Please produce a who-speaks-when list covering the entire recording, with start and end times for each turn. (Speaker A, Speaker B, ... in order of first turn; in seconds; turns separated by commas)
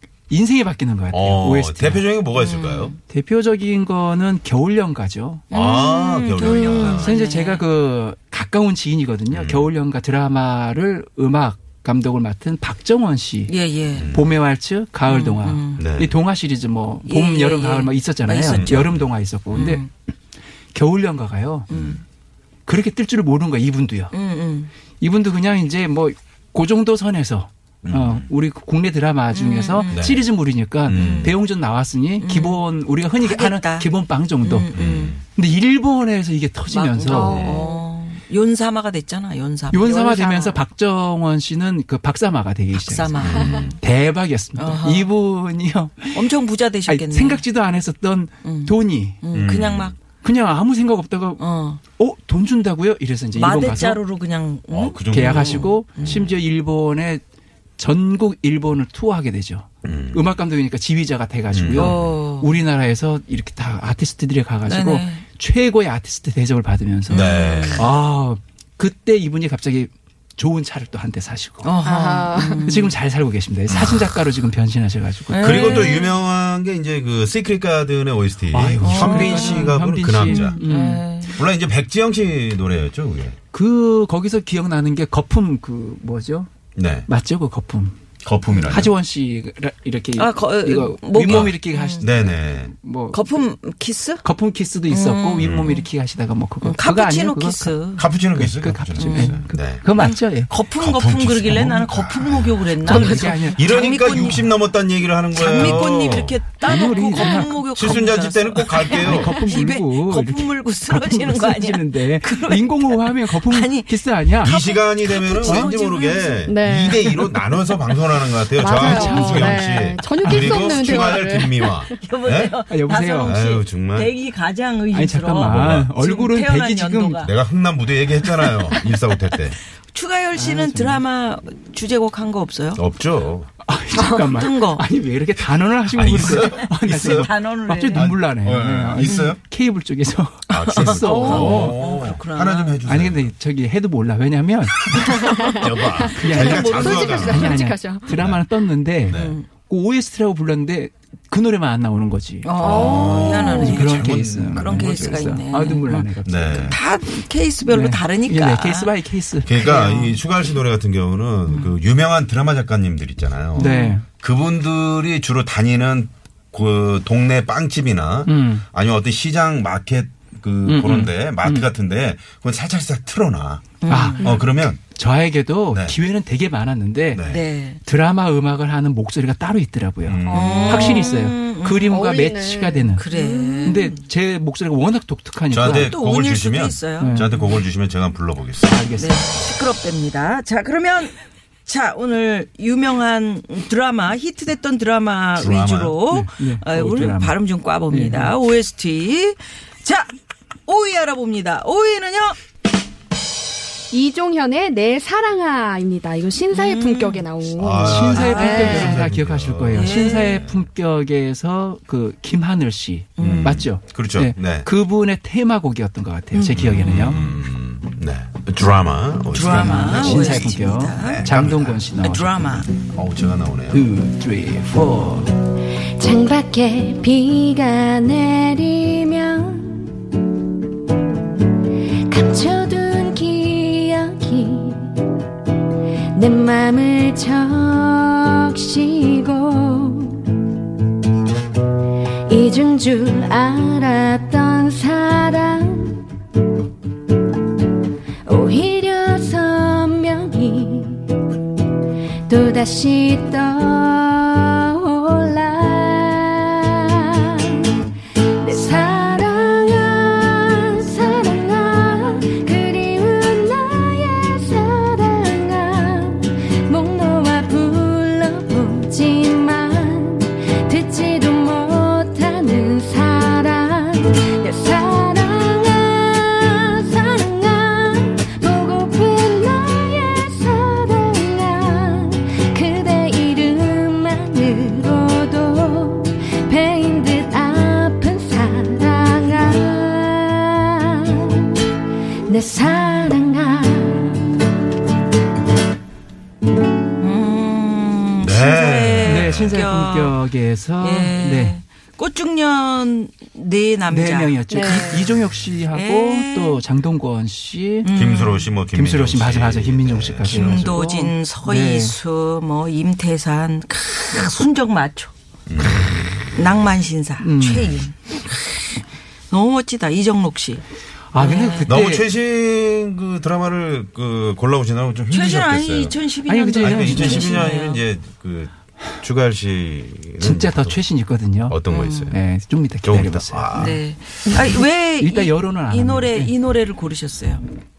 Speaker A: 0.3-2.1, Speaker B: 1.1-3.0, Speaker C: 2.3-3.0, Speaker A: 3.1-5.4, Speaker B: 5.5-7.1, Speaker C: 5.5-7.6, Speaker D: 6.5-7.0, Speaker A: 6.9-19.9, Speaker B: 9.3-9.7, Speaker C: 13.5-14.1, Speaker B: 13.9-14.4, Speaker C: 15.1-15.8, Speaker B: 15.8-16.2, Speaker C: 17.0-18.9, Speaker B: 18.5-19.1, Speaker C: 19.5-19.9, Speaker A: 20.7-21.7, Speaker C: 21.7-22.0, Speaker B: 21.7-22.0, Speaker A: 22.6-24.1, Speaker C: 24.1-24.7, Speaker A: 25.0-34.7, Speaker B: 27.8-28.3, Speaker C: 29.3-30.1, Speaker B: 29.9-30.2, Speaker B: 30.8-31.3, Speaker C: 30.9-31.4, Speaker C: 32.2-35.2, Speaker B: 34.7-35.2, Speaker A: 35.3-37.5, Speaker C: 36.7-40.6, Speaker B: 37.2-37.6, Speaker E: 37.4-37.8, Speaker A: 39.7-46.3, Speaker C: 42.7-43.8, Speaker B: 43.2-43.7, Speaker C: 44.5-45.1, Speaker C: 46.1-47.4, Speaker A: 46.9-49.2, Speaker C: 48.4-50.0, Speaker B: 49.3-50.0, Speaker A: 50.2-51.4, Speaker C: 51.4-51.8, Speaker A: 52.0-54.0, Speaker C: 53.3-56.2, Speaker B: 54.7-56.3, Speaker A: 55.1-57.2, Speaker A: 57.8-71.7, Speaker B: 59.8-60.3, Speaker B: 61.5-62.0, Speaker C: 61.7-62.6, Speaker C: 64.6-65.2, Speaker C: 67.1-67.9, Speaker B: 67.1-67.9, Speaker C: 71.6-73.0, Speaker D: 71.8-72.6, Speaker A: 72.6-75.9, Speaker B: 73.7-74.2, Speaker C: 75.3-76.2, Speaker B: 75.4-80.6, Speaker A: 78.5-81.0, Speaker C: 78.8-81.4, Speaker B: 81.3-83.4, Speaker A: 83.5-86.5, Speaker B: 86.7-87.1, Speaker A: 87.0-88.0, Speaker B: 88.2-88.9, Speaker A: 88.7-93.4, Speaker C: 90.2-92.0, Speaker B: 91.2-92.7, Speaker C: 93.1-94.2, Speaker A: 94.2-97.8, Speaker C: 94.9-95.8, Speaker B: 95.3-95.7, Speaker C: 96.6-98.0, Speaker B: 98.0-99.9, Speaker A: 98.3-100.5, Speaker C: 99.0-99.4, Speaker C: 99.9-104.5, Speaker B: 100.8-106.4, Speaker A: 102.8-104.4, Speaker C: 105.3-116.4, Speaker A: 105.4-105.8, Speaker A: 106.6-108.2, Speaker B: 107.7-109.4, Speaker A: 108.7-114.5, Speaker B: 114.4-122.6, Speaker A: 115.4-115.7, Speaker D: 116.4-117.0, Speaker D: 118.5-121.8, Speaker A: 118.7-120.5, Speaker C: 120.2-121.2, Speaker C: 121.8-127.3, Speaker A: 122.7-123.4, Speaker B: 123.2-124.1, Speaker A: 124.9-127.2, Speaker B: 125.4-125.9, Speaker B: 127.2-129.6, Speaker C: 129.9-132.8, Speaker A: 130.3-131.0, Speaker B: 132.8-133.5, Speaker A: 133.6-141.8, Speaker D: 134.0-134.2, Speaker C: 134.1-134.8, Speaker B: 135.9-137.3, Speaker C: 137.0-138.1, Speaker B: 137.9-139.4, Speaker C: 139.0-139.3, Speaker B: 140.5-143.3, Speaker C: 140.5-142.8, Speaker D: 141.0-141.6, Speaker A: 142.8-145.3, Speaker B: 144.9-147.6, Speaker D: 145.3-148.2, Speaker A: 146.2-156.8, Speaker C: 146.2-147.4, Speaker B: 148.1-148.4, Speaker B: 149.1-149.4, Speaker C: 149.1-149.5, Speaker C: 152.4-156.1, Speaker B: 152.6-155.4, Speaker B: 156.2-156.8, Speaker C: 156.6-158.9, Speaker A: 157.6-159.6, Speaker B: 159.4-174.8, Speaker C: 159.5-160.2, Speaker C: 161.5-161.8, Speaker A: 163.5-164.0, Speaker C: 163.6-163.9, Speaker A: 168.2-168.6, Speaker A: 170.6-171.7, Speaker C: 173.8-174.4, Speaker A: 173.9-177.3, Speaker B: 175.7-176.0, Speaker B: 177.1-177.4, Speaker C: 177.3-177.8, Speaker A: 177.8-183.0, Speaker B: 180.0-180.7, Speaker D: 180.2-181.1, Speaker C: 180.3-182.1, Speaker D: 181.9-183.8, Speaker C: 182.9-184.0, Speaker A: 183.6-186.0, Speaker B: 185.5-188.9, Speaker C: 185.7-187.6, Speaker A: 187.0-187.3, Speaker A: 188.6-189.2, Speaker C: 188.9-200.1, Speaker B: 195.3-196.0, Speaker A: 196.1-197.4, Speaker A: 197.9-198.3, Speaker C: 200.7-202.4, Speaker D: 203.9-209.0, Speaker C: 206.5-207.3, Speaker B: 207.6-210.7, Speaker A: 207.8-217.2, Speaker C: 208.1-208.9, Speaker C: 209.7-210.4, Speaker C: 213.2-213.6, Speaker B: 213.2-214.7, Speaker C: 216.3-217.3, Speaker B: 216.5-221.9, Speaker C: 219.3-221.3, Speaker A: 219.4-222.6, Speaker C: 222.0-222.7, Speaker B: 222.7-223.9, Speaker A: 223.7-225.3, Speaker E: 226.0-229.9, Speaker E: 232.1-235.0, Speaker E: 236.1-240.3, Speaker E: 242.3-246.0, Speaker E: 248.2-251.1, Speaker E: 252.3-257.7, Speaker E: 258.4-291.6, Speaker E: 292.2-294.1, Speaker C: 297.0-300.2, Speaker B: 298.2-299.5, Speaker A: 299.0-301.6, Speaker C: 300.8-305.1, Speaker A: 303.9-307.9, Speaker D: 304.5-305.1, Speaker C: 305.7-306.6, Speaker C: 307.8-308.5, Speaker B: 307.9-310.7, Speaker A: 308.7-311.9, Speaker C: 310.2-315.1, Speaker B: 315.5-316.4, Speaker C: 316.3-318.6, Speaker A: 317.2-317.8, Speaker C: 319.3-320.6, Speaker A: 321.1-322.1, Speaker C: 321.1-321.8, Speaker B: 321.7-326.0, Speaker C: 325.1-327.8, Speaker A: 326.2-327.5, Speaker B: 326.6-330.8, Speaker A: 330.2-333.7, Speaker B: 331.5-332.2, Speaker C: 331.7-332.2, Speaker B: 332.8-334.4, Speaker C: 333.5-337.4, Speaker A: 335.0-336.3